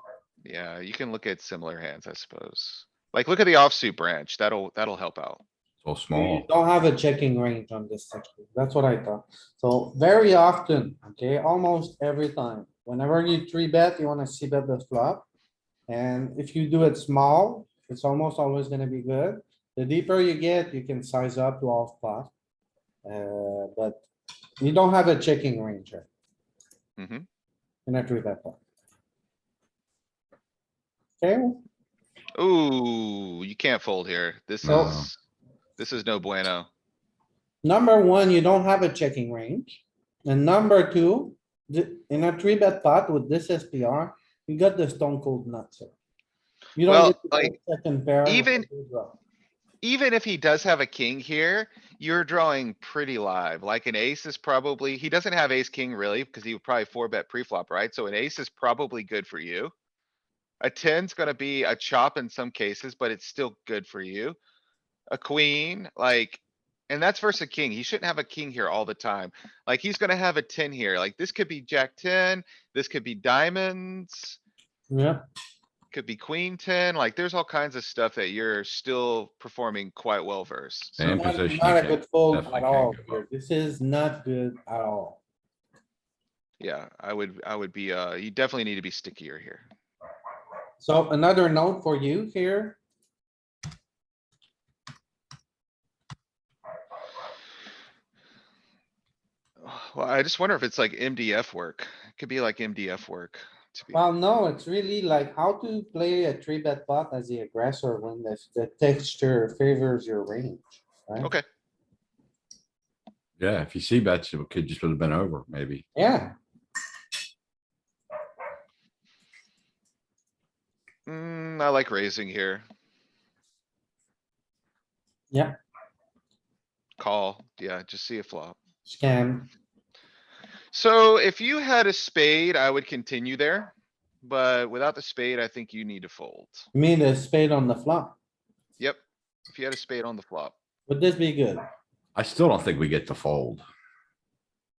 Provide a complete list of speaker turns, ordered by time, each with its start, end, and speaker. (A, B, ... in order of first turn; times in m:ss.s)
0:00.4-0:05.4 A
0:05.8-0:06.4 B
0:06.1-0:15.2 C
0:15.9-0:22.3 C
0:23.0-0:24.0 C
0:24.6-0:26.1 C
0:27.0-0:27.2 A
0:27.8-0:28.6 C
0:31.2-0:31.6 C
0:32.3-0:35.2 A
0:34.6-0:35.1 B
0:34.6-0:35.0 C
0:35.8-0:36.7 A
0:37.6-0:45.9 C
0:46.8-0:49.2 C
0:46.8-0:47.6 A
0:48.2-0:48.6 A
0:49.8-0:59.7 A
1:00.6-1:04.4 A
1:05.1-1:14.4 A
1:14.9-1:15.2 C
1:15.9-1:21.2 A
1:21.0-1:23.2 B
1:21.1-1:25.2 C
1:26.6-1:29.7 A
1:30.8-1:32.8 C
1:39.6-1:44.0 A
1:43.9-1:51.3 C
1:53.4-1:55.8 B
1:55.9-1:56.3 C
2:01.0-2:02.6 A
2:07.0-2:08.6 A
2:08.8-2:09.5 C
2:10.7-2:13.7 A
2:14.2-2:16.7 A
2:16.7-2:18.1 C
2:18.8-2:20.5 A
2:20.9-2:21.6 C
2:22.2-2:23.6 B